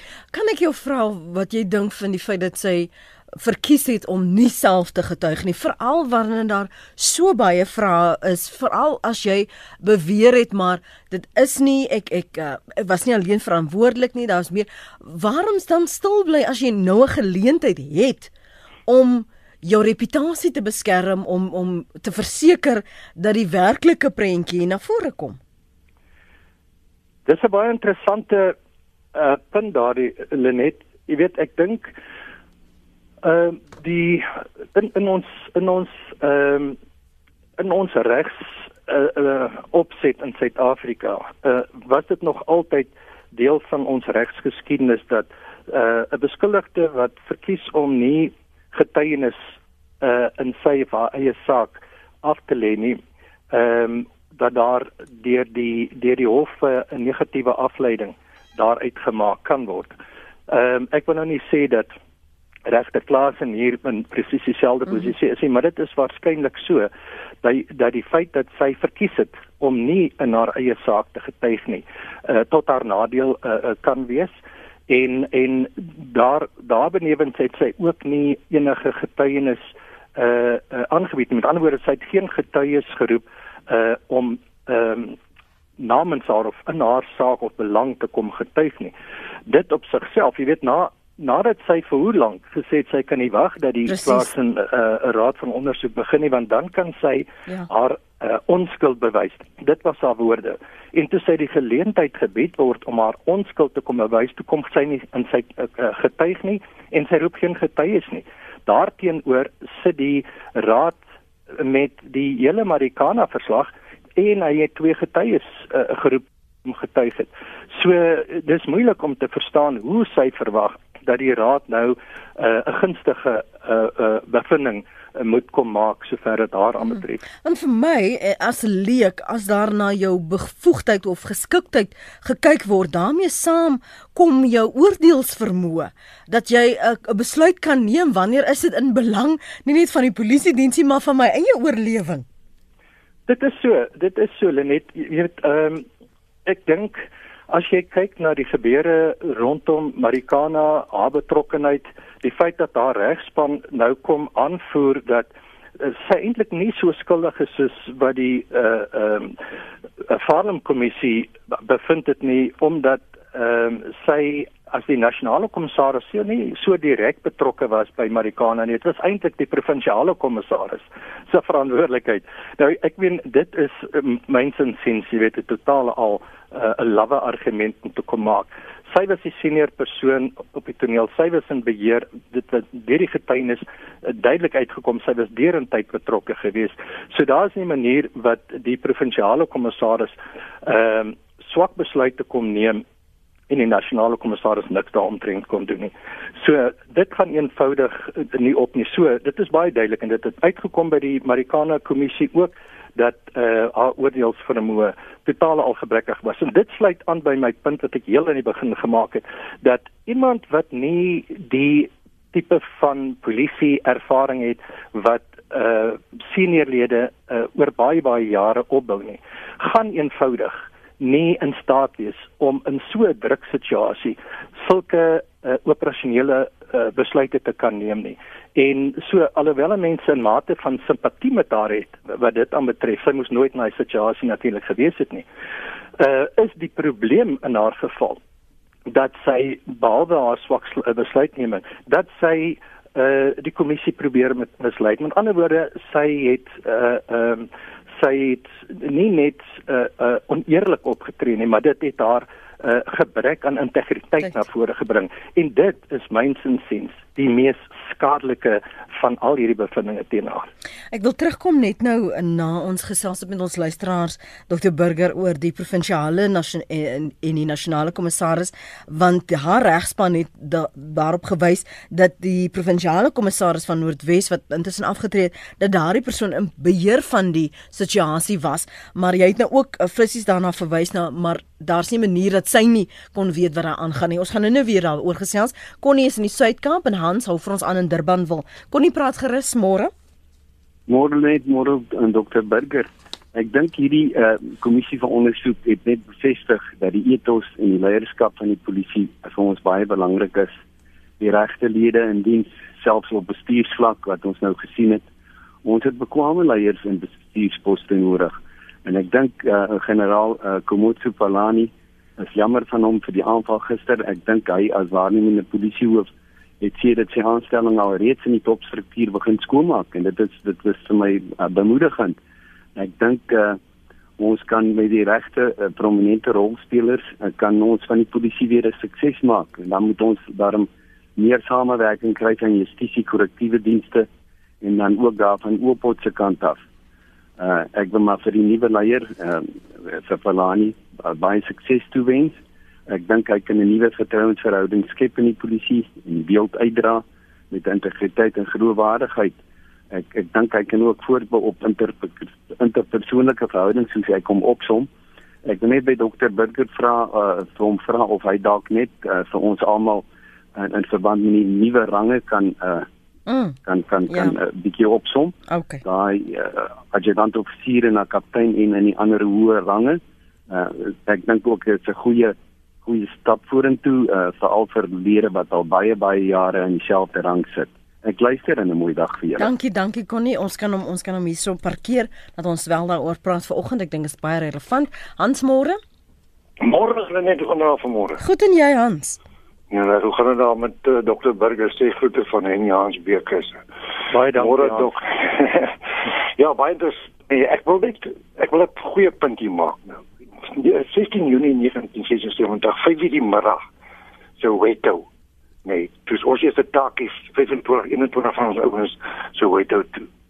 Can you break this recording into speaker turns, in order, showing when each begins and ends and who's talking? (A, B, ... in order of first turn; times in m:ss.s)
0:00.3-0:18.3 A
0:18.9-0:25.4 A
0:27.2-0:28.6 B
0:29.1-0:31.9 B
0:33.2-0:36.8 B
0:37.6-0:53.0 B
0:53.5-0:59.9 B
1:00.5-1:01.9 B
1:02.7-1:06.9 B
1:07.4-1:14.3 B
1:14.9-1:25.2 B
1:25.8-1:28.9 B
1:29.5-1:51.0 B
1:33.9-1:34.3 A
1:51.6-2:07.2 B
2:07.4-2:22.2 A
2:23.3-2:25.8 B
2:26.5-2:35.3 B
2:35.8-2:39.4 B
2:40.0-3:12.8 B
3:13.5-3:55.2 B
3:56.0-3:58.2 B
3:58.9-4:20.5 B
4:20.9-4:49.9 A
4:50.9-5:00.6 C
5:01.2-5:05.0 C
5:05.6-5:08.3 C
5:08.8-5:16.1 C
5:16.6-5:22.2 C
5:22.8-5:23.6 C
5:24.2-5:34.1 C
5:34.6-5:36.6 C
5:37.4-5:49.4 C
5:49.9-5:54.9 C
5:55.4-6:02.9 C
6:03.3-6:03.6 A
6:03.6-6:19.5 C
6:04.1-6:04.4 A
6:05.5-6:05.8 A
6:19.4-6:25.8 A
6:26.6-6:28.2 D
6:28.2-6:29.2 A
6:29.7-6:33.6 D
6:34.1-6:34.9 B
6:34.3-6:35.8 D
6:36.4-6:43.6 D
6:44.4-6:45.1 D
6:45.6-6:50.1 D